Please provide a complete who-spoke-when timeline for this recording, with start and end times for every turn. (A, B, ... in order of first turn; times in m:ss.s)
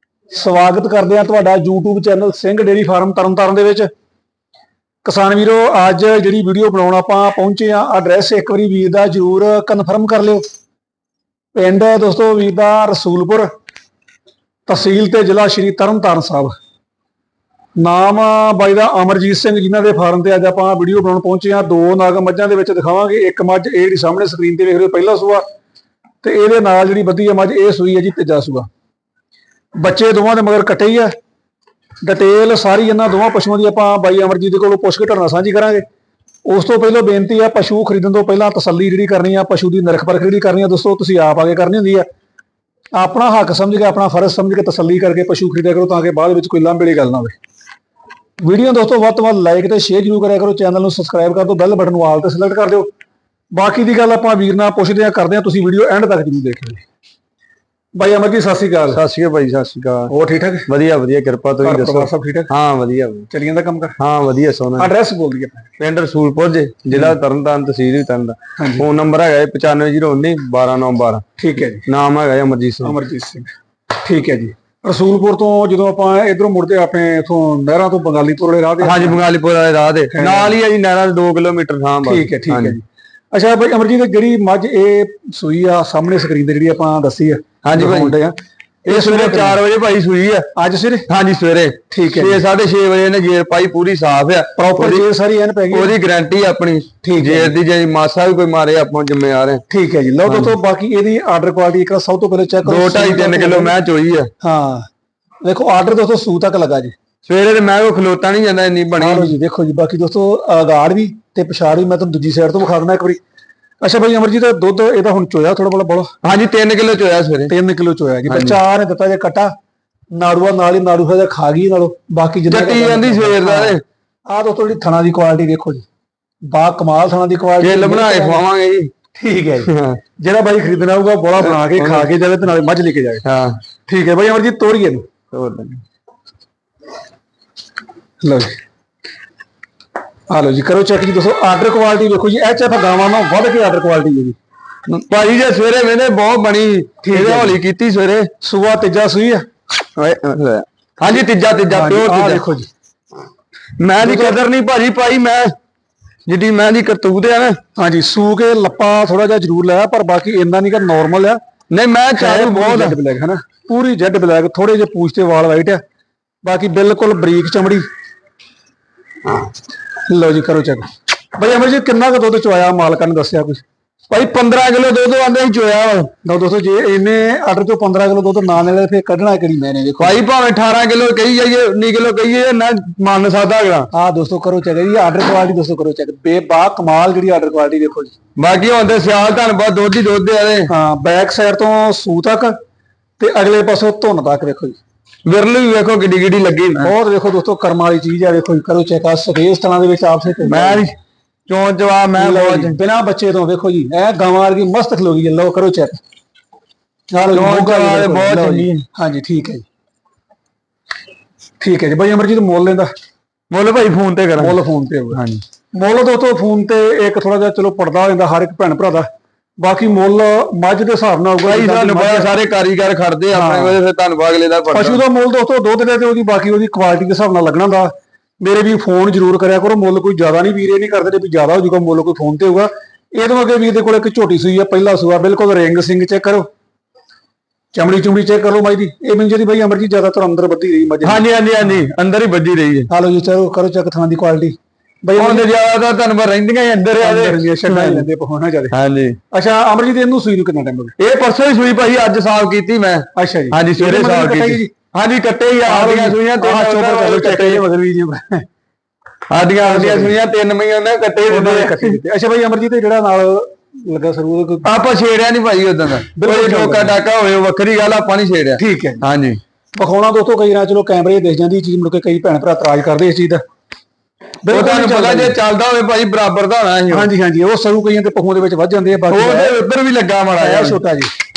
0:00.3-0:03.9 A
0:05.0-0:10.4 A
0:11.5-0:13.5 A
0:14.7-0:16.5 A
0:17.8-0:25.4 A
0:26.2-0:28.7 A
0:29.8-0:31.1 A
0:32.0-0:35.8 A
0:36.4-0:42.0 A
0:42.9-0:47.4 A
0:48.4-0:52.9 A
0:53.5-0:56.8 A
0:58.0-0:59.0 A
0:58.9-1:00.1 B
1:00.1-1:00.7 A
1:00.7-1:03.3 B
1:01.6-1:02.5 A
1:03.3-1:04.0 A
1:04.0-1:04.9 B
1:04.8-1:05.7 A
1:05.8-1:11.2 B
1:08.6-1:08.8 A
1:11.4-1:11.8 A
1:11.8-1:13.0 B
1:12.8-1:19.2 A
1:18.8-1:22.8 B
1:20.1-1:20.6 A
1:22.0-1:29.6 A
1:27.6-1:28.1 B
1:28.8-1:30.5 B
1:30.6-1:31.1 A
1:31.1-1:35.0 B
1:31.9-1:32.4 A
1:34.6-1:35.9 A
1:35.7-1:39.6 B
1:37.0-1:37.5 A
1:39.7-1:43.7 A
1:40.2-1:40.6 B
1:42.6-1:44.3 B
1:44.4-1:44.9 A
1:45.4-1:46.9 A
1:47.2-1:49.3 B
1:49.0-1:53.2 A
1:53.8-1:56.1 A
1:56.2-1:57.5 B
1:57.5-1:59.5 A
1:58.3-1:58.6 B
2:00.1-2:05.8 A
2:02.5-2:03.8 B
2:06.5-2:08.4 A
2:07.6-2:08.9 B
2:09.2-2:13.2 A
2:09.6-2:10.0 B
2:11.4-2:12.1 B
2:13.2-2:13.6 B
2:13.9-2:15.1 A
2:15.3-2:15.8 B
2:18.2-2:18.6 A
2:20.3-2:24.4 A
2:24.9-2:28.3 B
2:27.0-2:27.6 A
2:28.4-2:29.4 A
2:30.0-2:32.4 B
2:31.7-2:32.7 A
2:33.8-2:35.5 B
2:34.0-2:34.4 A
2:36.3-2:37.6 B
2:37.8-2:41.4 A
2:41.7-2:43.0 B
2:42.2-2:45.8 A
2:46.4-2:47.8 A
2:50.1-2:53.6 A
2:54.1-2:56.1 B
2:56.2-3:00.2 A
3:00.0-3:03.9 B
3:03.9-3:08.1 A
3:08.4-3:10.7 B
3:10.7-3:12.6 A
3:13.2-3:14.8 A
3:15.2-3:16.9 B
3:16.8-3:20.8 A
3:20.4-3:20.9 B
3:21.5-3:22.8 B
3:22.2-3:26.0 A
3:27.1-3:29.6 A
3:27.3-3:28.8 B
3:31.6-3:32.9 A
3:33.5-3:34.6 B
3:34.4-3:35.2 A
3:35.1-3:35.4 B
3:35.7-3:39.1 A
3:39.6-3:42.3 A
3:41.4-3:45.0 B
3:43.3-3:43.8 A
3:44.7-3:56.5 A
3:57.7-4:01.2 A
4:01.0-4:02.9 B
4:02.9-4:05.5 A
4:05.1-4:08.1 B
4:07.0-4:08.7 A
4:08.7-4:09.2 B
4:09.3-4:10.9 A
4:11.0-4:17.6 B
4:13.1-4:14.7 A
4:15.6-4:18.4 A
4:19.3-4:22.0 B
4:19.6-4:20.1 A
4:21.3-4:24.7 A
4:24.6-4:29.4 B
4:26.1-4:27.0 A
4:28.6-4:29.0 A
4:29.8-4:33.4 A
4:34.4-4:35.4 A
4:34.5-4:37.1 B
4:36.9-4:39.6 A
4:39.1-4:40.8 B
4:40.4-4:41.1 A